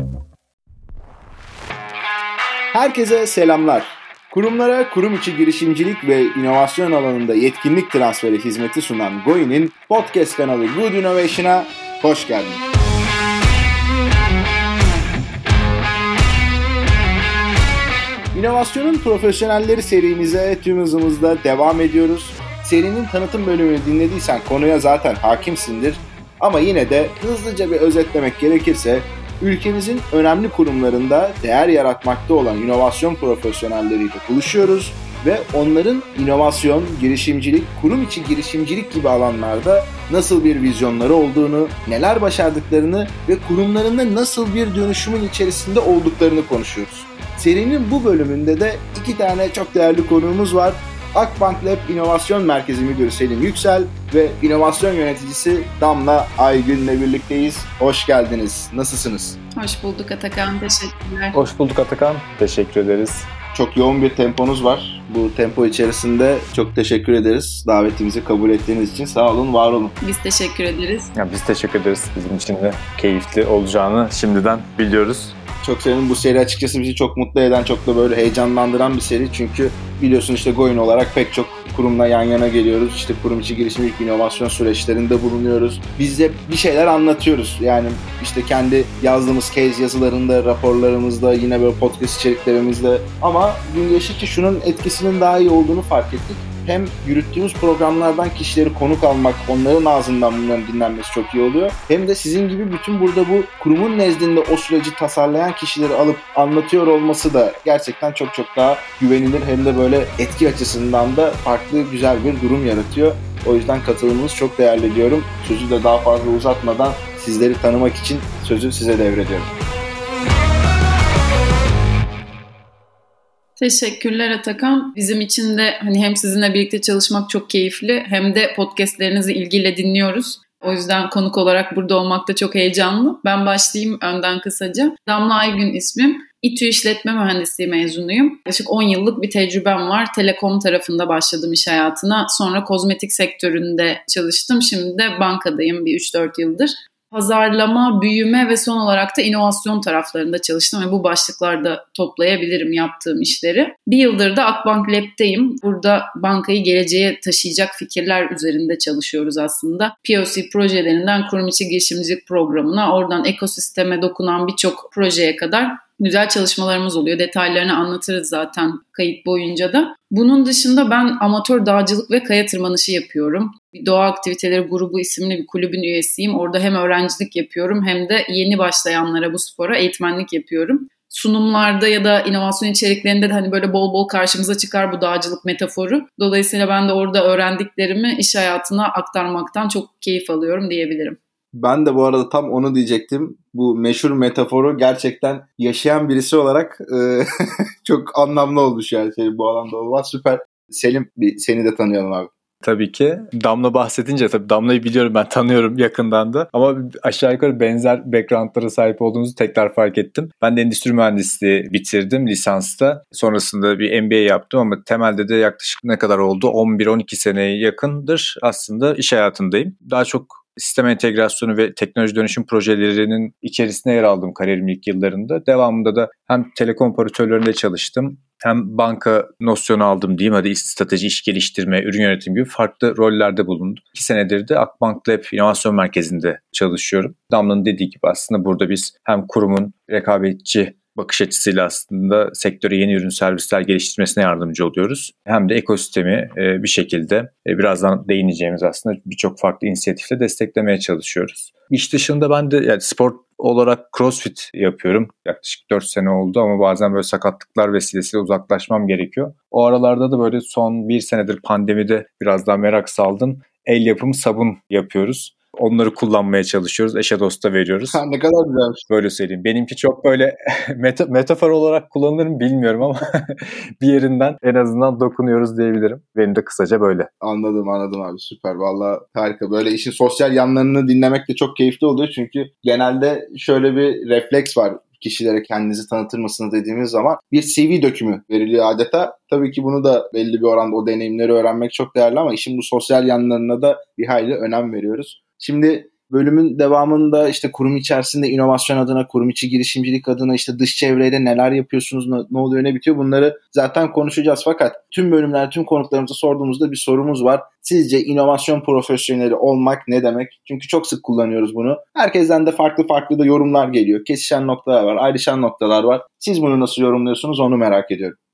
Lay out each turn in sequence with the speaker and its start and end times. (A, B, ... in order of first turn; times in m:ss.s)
0:02.7-0:12.6 A
0:18.3-0:59.4 A
0:59.6-1:01.4 B
1:01.3-1:03.3 C
1:03.5-1:10.0 A
1:10.0-1:11.1 B
1:11.2-1:15.4 C
1:15.6-1:59.5 A
2:03.6-3:11.2 B
3:11.5-3:17.3 A
3:17.8-3:22.3 A
3:22.6-4:28.0 C
4:27.9-4:28.8 A
4:28.9-4:37.1 C
4:37.2-5:18.2 A